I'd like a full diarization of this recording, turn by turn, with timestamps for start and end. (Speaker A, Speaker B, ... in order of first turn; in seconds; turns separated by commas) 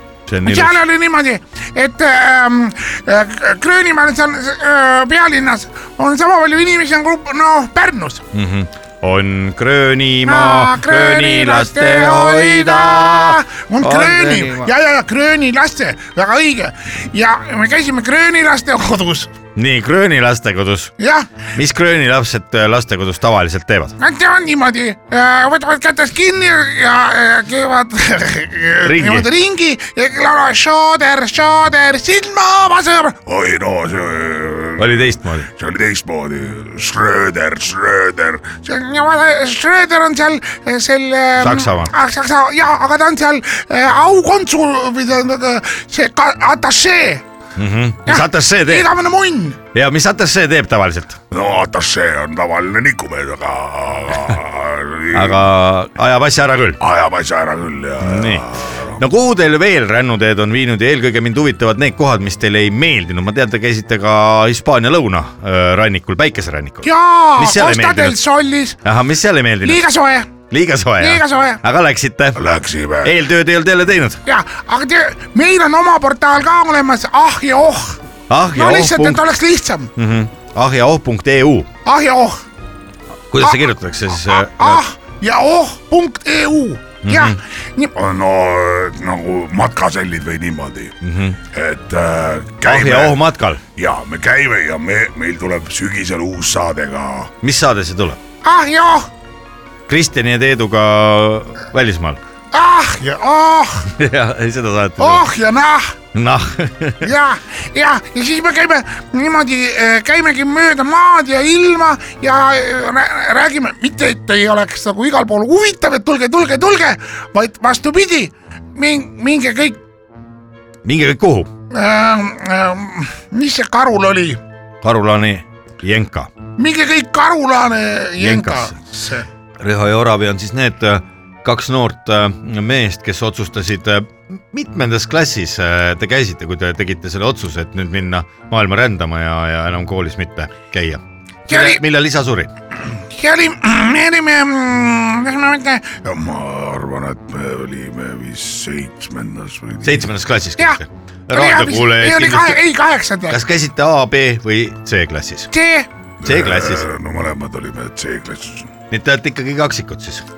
Speaker A: 0.3-0.8, Speaker B: 0.4-8.2, Speaker A: 8.3-14.7, Speaker B: 10.2-19.3, Speaker A: 19.6-20.9, Speaker B: 21.0-21.3, Speaker A: 21.5-23.9, Speaker B: 24.0-33.2, Speaker A: 28.8-29.3, Speaker C: 33.2-38.6, Speaker A: 34.8-35.5, Speaker B: 38.6-47.2, Speaker A: 41.4-41.9, Speaker A: 47.6-48.9, Speaker B: 48.0-49.6, Speaker A: 49.7-51.2, Speaker C: 51.3-55.4, Speaker A: 55.1-56.8, Speaker C: 56.8-59.0, Speaker A: 58.0-58.4, Speaker A: 59.0-68.2, Speaker B: 66.8-68.8, Speaker A: 68.8-69.8, Speaker B: 69.6-70.3, Speaker A: 70.5-72.4, Speaker B: 71.0-71.6, Speaker C: 72.3-73.2, Speaker A: 73.0-74.2, Speaker B: 74.2-78.0, Speaker A: 78.3-79.2, Speaker B: 78.5-79.9, Speaker A: 80.0-81.7, Speaker B: 81.8-82.4, Speaker A: 83.3-84.8, Speaker B: 83.4-87.9, Speaker A: 87.0-87.4, Speaker C: 87.9-90.9, Speaker A: 91.0-91.4, Speaker C: 91.5-93.2, Speaker A: 92.6-93.6, Speaker C: 93.8-97.3, Speaker A: 97.4-98.2, Speaker B: 98.4-99.1, Speaker A: 99.9-102.2, Speaker B: 102.5-103.9, Speaker A: 103.9-105.2, Speaker B: 105.0-105.9, Speaker A: 106.1-107.1, Speaker B: 107.0-119.8, Speaker A: 120.8-121.5, Speaker B: 121.7-124.4, Speaker A: 124.8-126.3, Speaker B: 126.6-129.2, Speaker A: 128.2-128.8, Speaker A: 129.6-142.5, Speaker B: 141.5-141.8, Speaker B: 143.1-145.9, Speaker C: 146.0-150.1, Speaker A: 149.8-152.6, Speaker B: 151.3-153.4, Speaker A: 153.3-155.5, Speaker B: 155.5-155.9, Speaker C: 156.2-158.7, Speaker A: 156.2-156.9, Speaker A: 158.9-160.2